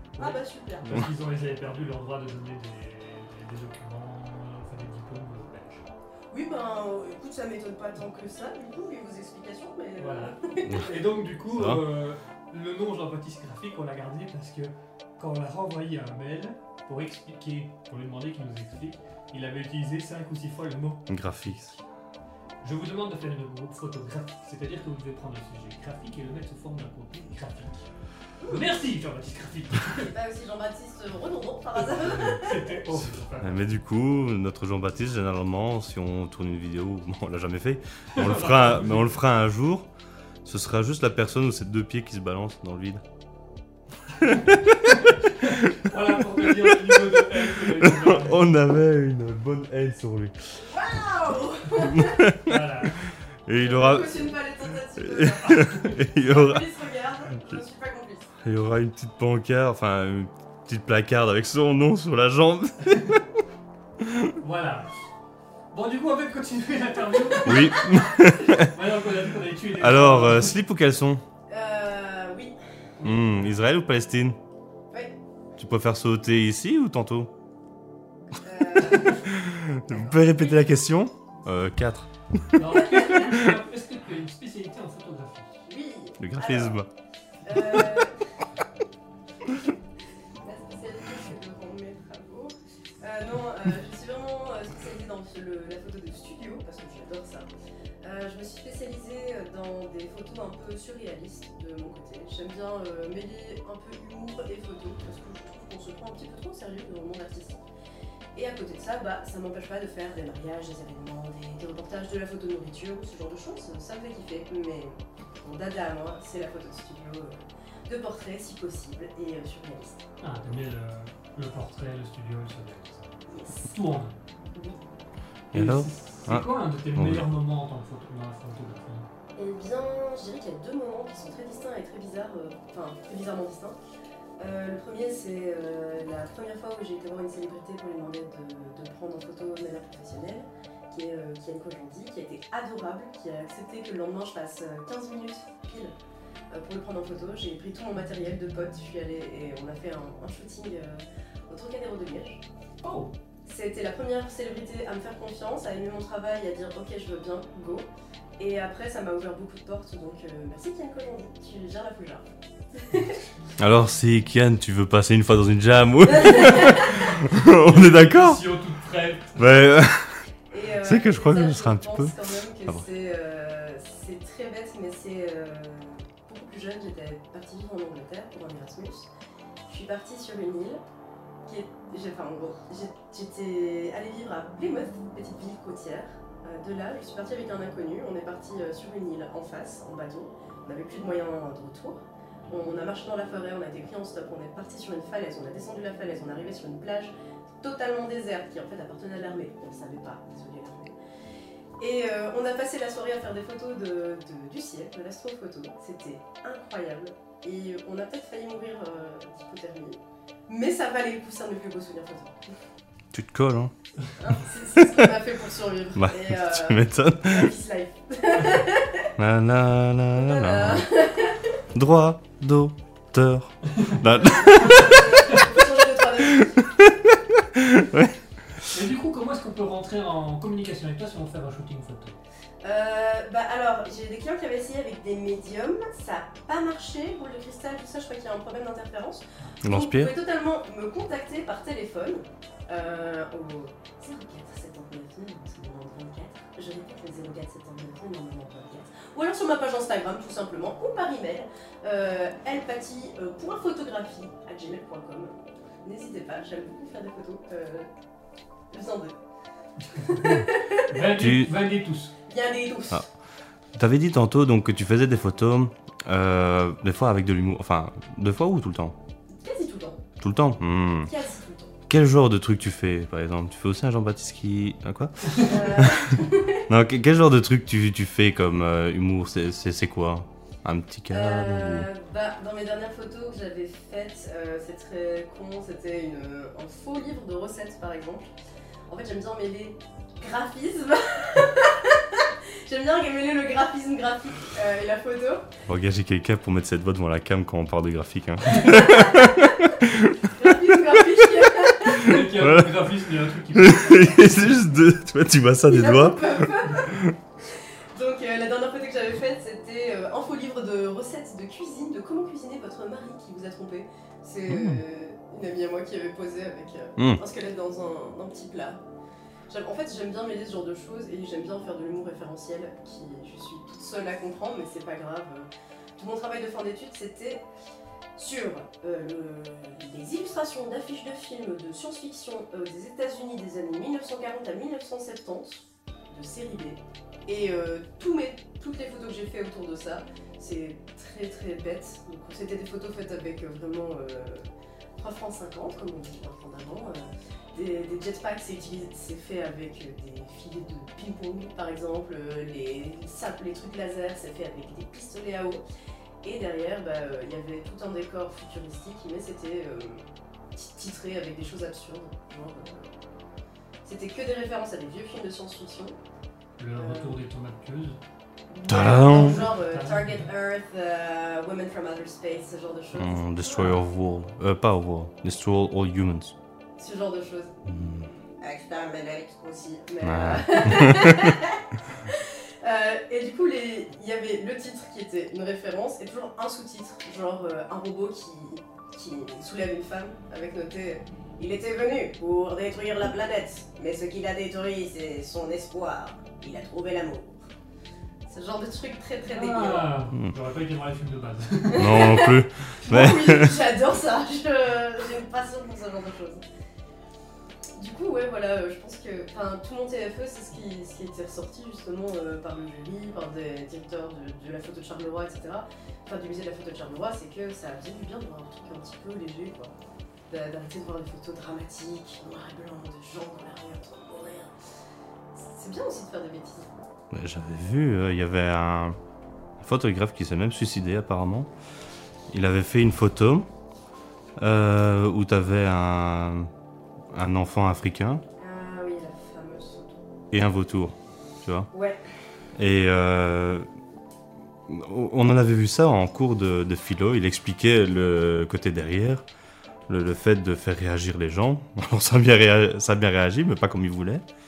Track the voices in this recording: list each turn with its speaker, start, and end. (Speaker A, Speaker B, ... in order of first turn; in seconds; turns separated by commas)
Speaker A: 0.2-5.9, Speaker B: 0.2-1.0, Speaker B: 6.3-10.9, Speaker A: 10.0-21.8, Speaker C: 11.5-11.8, Speaker C: 21.1-21.7, Speaker A: 22.6-27.9, Speaker B: 28.4-28.9, Speaker A: 28.5-30.1, Speaker B: 30.0-32.8, Speaker A: 31.8-33.7, Speaker C: 33.4-39.9, Speaker A: 38.1-39.2, Speaker C: 40.4-43.0, Speaker A: 44.2-48.5, Speaker C: 44.2-45.7, Speaker C: 46.4-50.3, Speaker B: 50.6-52.3, Speaker C: 51.8-52.9, Speaker A: 52.4-53.0, Speaker C: 53.5-54.4, Speaker B: 53.6-58.3, Speaker C: 55.0-56.8, Speaker A: 55.5-56.0, Speaker C: 58.4-63.2, Speaker C: 64.0-64.3, Speaker A: 64.4-64.9, Speaker A: 65.7-70.6, Speaker C: 67.4-68.7, Speaker C: 69.7-71.2, Speaker B: 71.5-72.5, Speaker A: 73.0-73.5, Speaker C: 73.0-74.4, Speaker B: 74.9-75.2, Speaker C: 75.6-77.3, Speaker B: 78.4-79.4, Speaker C: 78.9-83.3, Speaker B: 79.9-80.6, Speaker A: 82.5-85.6, Speaker B: 82.8-83.2, Speaker B: 85.7-86.8, Speaker C: 86.2-86.9, Speaker B: 87.4-88.2, Speaker C: 87.7-88.1, Speaker B: 90.4-97.5, Speaker B: 98.0-107.6, Speaker B: 108.3-120.0, Speaker A: 120.2-124.2, Speaker B: 123.3-123.7, Speaker B: 124.5-124.8, Speaker C: 125.5-127.3, Speaker A: 125.5-129.1, Speaker B: 129.3-133.8, Speaker B: 134.4-145.9, Speaker B: 146.5-152.4, Speaker A: 152.8-153.1, Speaker B: 153.4-157.9, Speaker B: 158.4-163.2, Speaker C: 163.6-168.4, Speaker B: 166.1-167.1, Speaker A: 167.3-169.4, Speaker C: 169.4-170.2, Speaker B: 170.5-179.1, Speaker C: 170.8-172.8, Speaker B: 179.7-180.8, Speaker B: 181.4-200.9, Speaker B: 201.8-212.4, Speaker C: 213.1-213.7, Speaker B: 214.2-219.1, Speaker C: 215.9-217.5, Speaker C: 219.2-220.9, Speaker B: 220.2-221.6, Speaker C: 221.7-225.2, Speaker B: 224.2-226.7, Speaker C: 226.3-228.2, Speaker A: 228.7-232.2, Speaker B: 232.6-257.9, Speaker C: 239.6-240.1, Speaker B: 258.7-259.2, Speaker A: 259.8-262.1, Speaker B: 260.0-260.9, Speaker C: 261.1-261.5, Speaker B: 262.3-263.0, Speaker C: 263.7-268.9, Speaker B: 269.3-270.0, Speaker C: 270.2-271.1, Speaker B: 271.0-271.7, Speaker C: 271.9-276.2, Speaker B: 275.3-276.6, Speaker C: 276.7-281.9, Speaker B: 281.1-288.3, Speaker B: 288.9-295.5, Speaker C: 295.6-300.1, Speaker B: 298.5-302.2, Speaker A: 301.9-304.4, Speaker C: 302.2-302.7, Speaker C: 303.5-307.1, Speaker B: 305.7-307.0, Speaker B: 307.5-318.8, Speaker C: 314.5-314.8, Speaker C: 317.0-317.2, Speaker B: 319.5-327.4, Speaker B: 328.1-355.6, Speaker B: 356.2-362.9, Speaker B: 363.8-366.0, Speaker A: 366.6-368.0, Speaker B: 366.8-367.2, Speaker B: 368.5-373.8, Speaker C: 368.7-369.5, Speaker A: 368.9-370.3, Speaker C: 372.9-376.3, Speaker B: 376.8-377.5, Speaker C: 377.6-378.1, Speaker B: 378.4-397.4, Speaker C: 380.0-381.4, Speaker B: 398.3-399.9, Speaker A: 399.3-402.0, Speaker B: 401.7-406.4, Speaker C: 401.7-403.5, Speaker B: 407.8-419.7, Speaker B: 420.3-424.5, Speaker B: 425.3-426.7, Speaker C: 427.1-429.0, Speaker C: 429.6-431.5, Speaker C: 432.3-433.5, Speaker C: 434.4-436.5, Speaker C: 437.1-438.2, Speaker B: 438.4-440.1, Speaker C: 440.3-441.7, Speaker B: 441.7-442.0, Speaker C: 442.6-443.7, Speaker C: 444.7-449.2, Speaker C: 449.9-454.2